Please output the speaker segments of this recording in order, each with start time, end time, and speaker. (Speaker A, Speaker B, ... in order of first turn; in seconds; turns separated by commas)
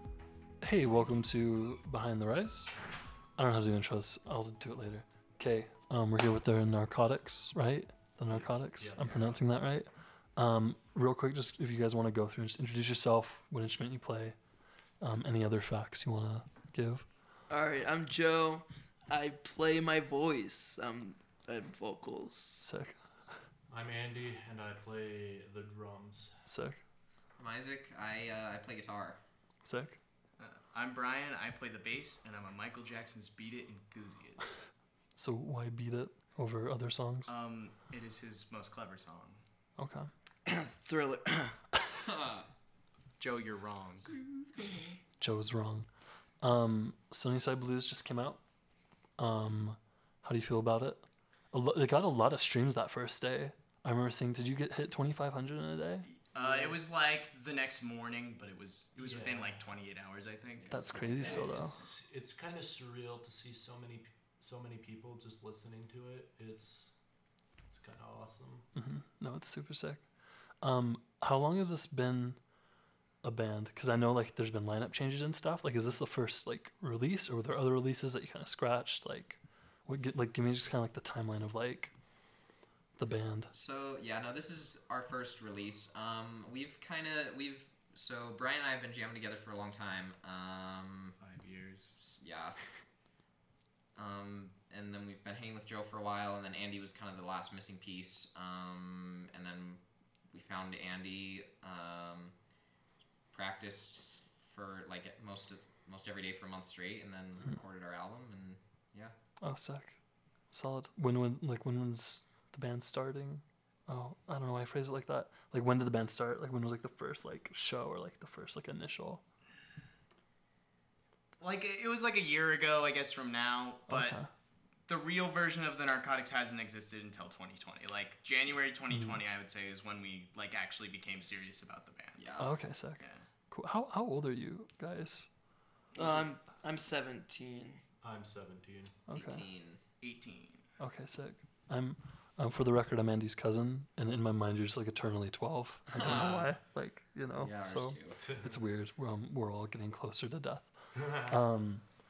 Speaker A: 0.6-2.7, Speaker A: 3.4-14.4, Speaker B: 8.3-9.4, Speaker A: 15.0-17.1, Speaker C: 17.5-22.6, Speaker A: 22.6-23.4, Speaker B: 23.7-26.4, Speaker A: 26.5-26.8, Speaker D: 27.4-29.2, Speaker A: 29.6-30.0, Speaker E: 30.4-34.6, Speaker A: 35.1-37.3, Speaker E: 37.3-39.4, Speaker A: 39.8-40.1, Speaker C: 40.5-41.6, Speaker D: 42.1-42.5, Speaker E: 43.2-44.1, Speaker D: 44.5-44.9, Speaker A: 45.2-45.9, Speaker A: 46.4-48.4, Speaker A: 49.2-56.1, Speaker E: 56.3-61.3, Speaker B: 56.4-56.8, Speaker B: 59.0-59.6, Speaker D: 60.6-61.9, Speaker A: 60.7-61.8, Speaker B: 61.2-66.9, Speaker B: 67.7-68.7, Speaker A: 68.8-70.1, Speaker A: 70.6-72.4, Speaker A: 73.2-81.9, Speaker A: 83.0-83.5, Speaker D: 83.5-91.2, Speaker E: 91.2-92.0, Speaker D: 92.0-92.6, Speaker D: 94.0-102.3, Speaker D: 103.3-109.2, Speaker A: 109.4-110.0, Speaker A: 110.5-119.2, Speaker E: 121.4-124.2, Speaker A: 123.9-124.3, Speaker E: 124.9-132.2, Speaker A: 128.9-129.2, Speaker D: 132.2-132.5, Speaker A: 132.4-135.3, Speaker E: 133.0-133.3, Speaker C: 135.9-137.8, Speaker B: 138.0-138.9, Speaker A: 139.1-139.4, Speaker D: 139.1-139.8, Speaker E: 140.0-140.6, Speaker A: 140.8-151.8, Speaker D: 145.9-146.3, Speaker E: 146.0-146.4, Speaker B: 146.0-146.4, Speaker D: 147.4-148.2, Speaker B: 148.2-148.6, Speaker B: 150.9-151.4